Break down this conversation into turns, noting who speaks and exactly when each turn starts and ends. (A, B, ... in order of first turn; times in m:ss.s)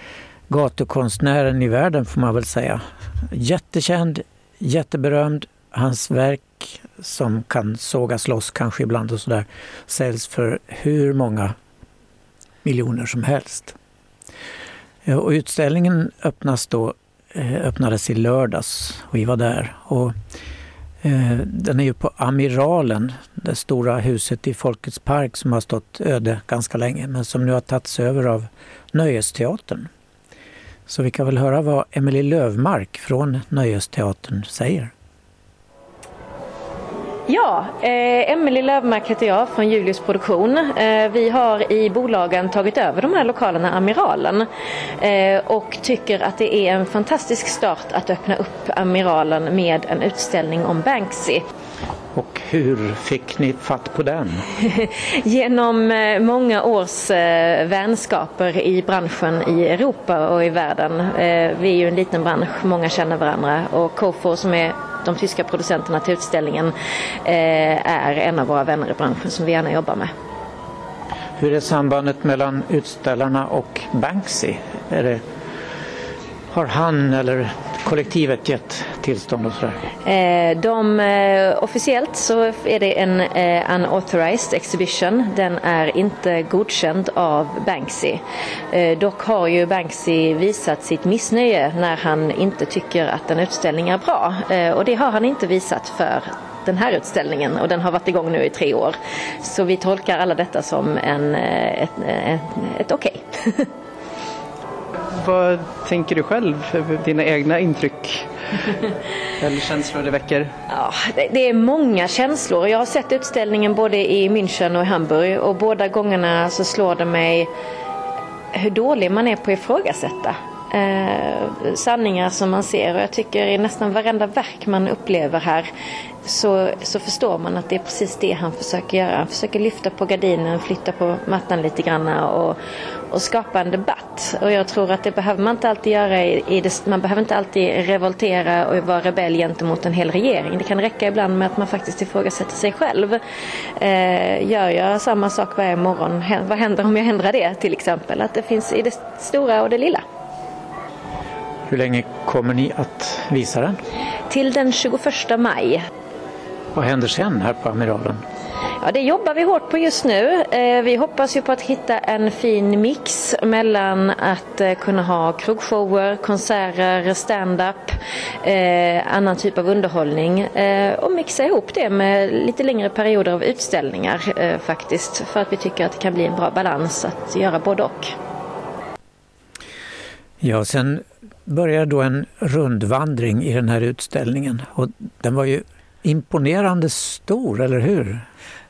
0:00.5-0:11.6 A
0:12.6-0:13.8 A
0:15.0-0:20.2 A
0:21.0-0:29.9 A
0:30.9-0:34.9 A
0:37.3-0:44.5 B
0:45.0-0:51.4 B
0:52.1-0:54.5 A
0:54.6-1:06.7 B
1:07.2-1:10.1 B
1:11.4-1:15.2 A
1:16.5-1:19.8 A
1:20.0-1:43.7 B
1:45.1-1:48.3 C
1:49.4-1:50.5 C
1:50.7-1:57.5 B
1:58.5-2:05.7 B
2:06.2-2:12.6 B
2:13.1-2:23.2 B
2:23.8-2:30.0 B
2:31.7-2:33.8 A
2:34.3-2:35.8 B
2:36.7-2:38.2 A
2:38.8-2:58.1 B
3:00.4-3:08.2 A